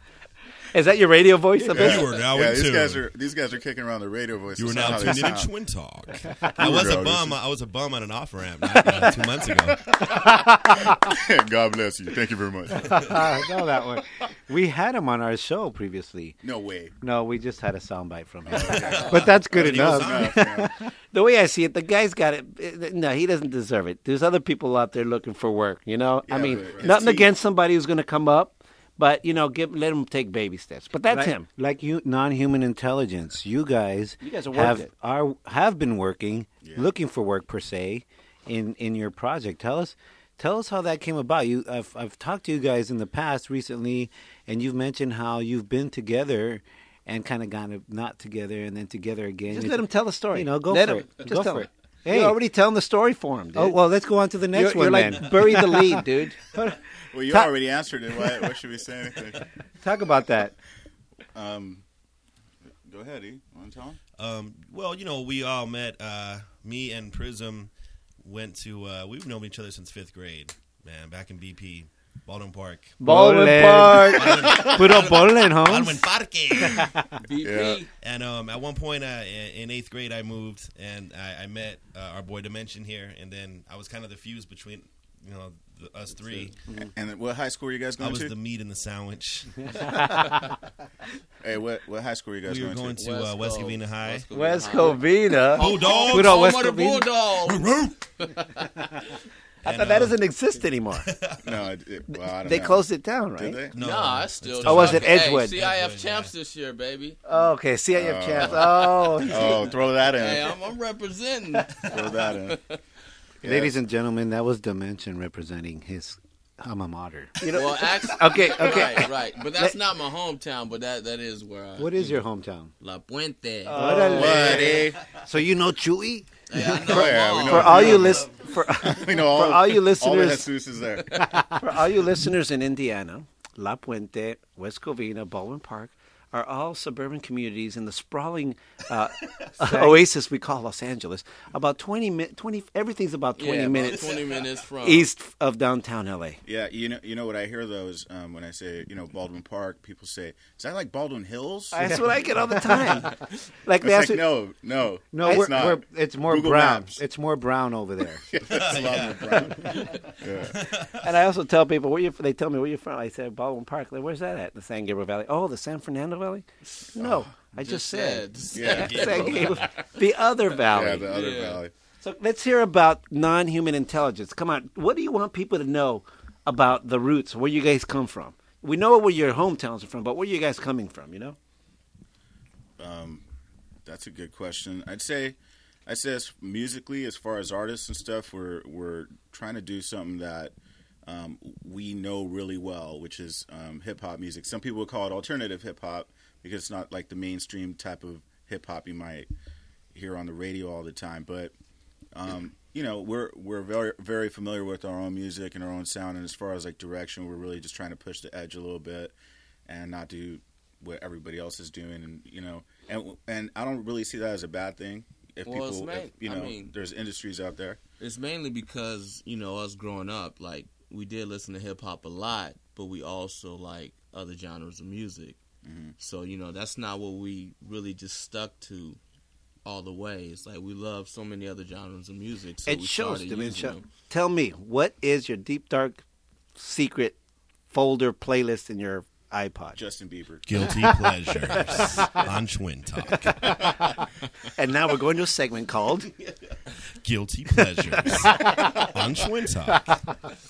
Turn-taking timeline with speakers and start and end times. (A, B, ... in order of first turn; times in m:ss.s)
0:00.7-0:02.1 A
0:01.6-0:05.5 B
0:01.8-0:03.0 C
0:04.6-0:09.8 C
0:06.6-0:07.4 B
0:09.8-0:13.2 B
0:10.2-0:10.9 D
0:12.8-0:16.4 D
0:16.4-0:16.9 B
0:17.0-0:20.7 D
0:18.4-0:20.7 B
0:18.9-0:20.4 C
0:21.1-0:31.4 A
0:26.2-0:27.3 B
0:31.1-0:52.4 D
0:34.2-0:34.9 A
0:36.6-0:36.9 B
0:49.5-0:56.6 A
0:53.5-0:56.0 D
0:57.1-0:59.5 B
0:59.8-1:00.5 D
1:01.3-1:01.8 B
1:02.8-1:04.0 B
1:04.2-1:07.7 C
1:08.2-1:13.0 C
1:13.0-1:15.0 A
1:13.0-1:16.0 D
1:14.2-1:16.9 C
1:16.7-1:17.0 D
1:17.2-1:17.9 E
1:17.4-1:17.8 B
1:18.0-1:26.5 C
1:26.9-1:28.3 B
1:28.0-1:29.7 C
1:31.4-1:33.0 B
1:32.5-1:34.3 C
1:33.0-1:38.7 E
1:34.3-1:36.6 A
1:35.6-1:36.4 C
1:36.1-1:37.1 D
1:37.4-1:38.0 C
1:39.6-1:41.1 A
1:39.6-1:40.2 C
1:41.0-1:41.4 C
1:41.4-1:43.8 B
1:42.1-1:43.6 A
1:43.8-1:46.3 C
1:43.8-1:47.2 E
1:44.6-1:45.6 A
1:47.3-1:49.8 A
1:47.9-1:50.6 B
1:50.1-1:52.8 E
1:51.9-1:52.6 B
1:53.4-1:53.7 B
1:53.4-1:57.4 D
1:57.4-1:59.7 A
1:57.5-2:02.2 E
2:01.8-2:02.7 D
2:02.8-2:04.8 E
2:03.7-2:04.8 A
2:03.7-2:06.3 D
2:03.9-2:05.0 B
2:06.5-2:08.2 E
2:06.6-2:10.5 A
2:06.7-2:11.1 B
2:11.6-2:26.4 A
2:19.6-2:20.0 D
2:23.4-2:25.1 E
2:26.4-2:32.1 B
2:31.7-2:34.2 A
2:32.5-2:32.8 D
2:33.8-2:37.0 B
2:35.1-2:38.2 D
2:35.2-2:35.5 A
2:38.3-2:40.6 B
2:38.5-2:39.6 C
2:40.6-2:40.9 C
2:41.0-2:46.4 A
2:47.0-2:51.1 A
2:47.6-2:51.6 E
2:48.5-2:49.3 B
2:48.9-2:49.6 C
2:50.7-2:51.7 B
2:52.0-3:01.4 A
3:02.8-3:03.2 B
3:03.8-3:19.3 B
3:19.9-3:21.5 B
3:22.1-3:29.1 B
3:29.6-3:37.8 B
3:35.4-3:36.7 E
3:38.0-3:45.4 E
3:45.6-3:45.9 B
3:46.0-3:49.0 E
3:49.6-3:53.8 E
3:52.6-3:56.0 A
3:56.6-3:57.2 A
3:57.7-3:59.8 A
3:59.7-4:00.7 B
4:00.5-4:03.6 C
4:01.4-4:02.1 A
4:04.6-4:06.1 A
4:07.0-4:10.0 C
4:08.1-4:08.6 A